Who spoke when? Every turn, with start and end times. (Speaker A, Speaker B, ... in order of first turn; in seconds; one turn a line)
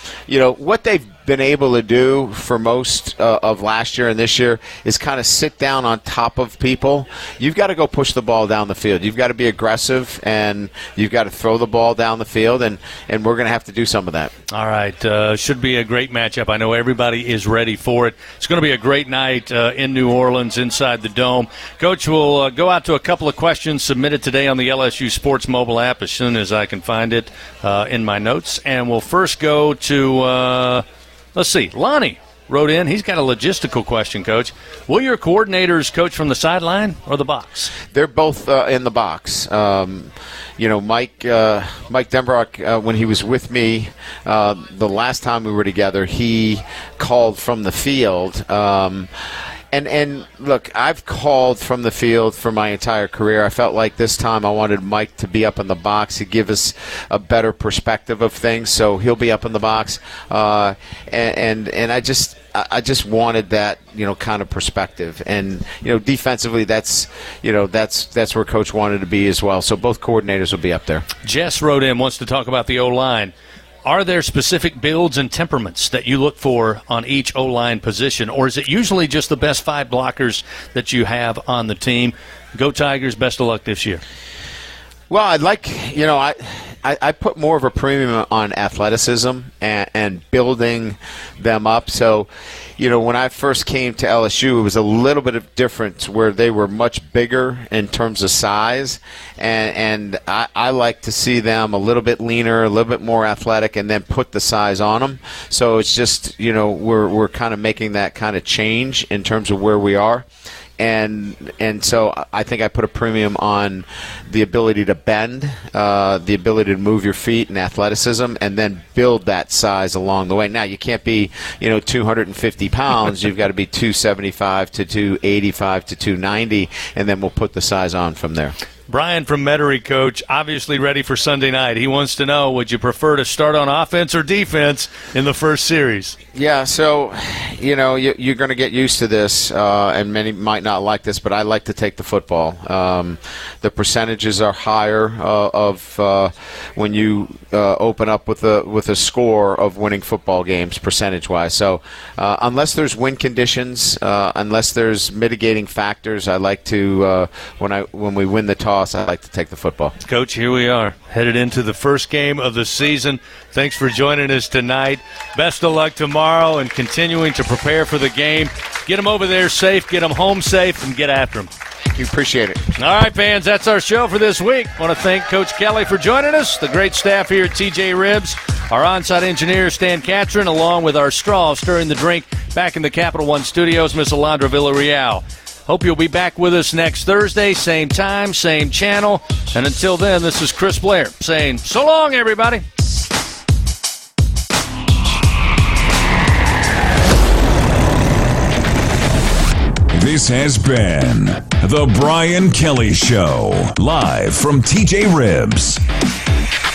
Speaker A: 0.3-14.3
Speaker B: 14.5-37.7
Speaker A: 37.9-49.1
Speaker A: 49.7-71.0
Speaker B: 71.2-73.3
Speaker B: 73.8-84.0
Speaker A: 85.1-110.2
Speaker A: 110.8-128.5
Speaker B: 128.9-136.2
Speaker A: 136.3-159.9
Speaker B: 160.0-171.5
Speaker A: 171.9-172.6
Speaker B: 172.8-192.6
Speaker C: 199.9-205.8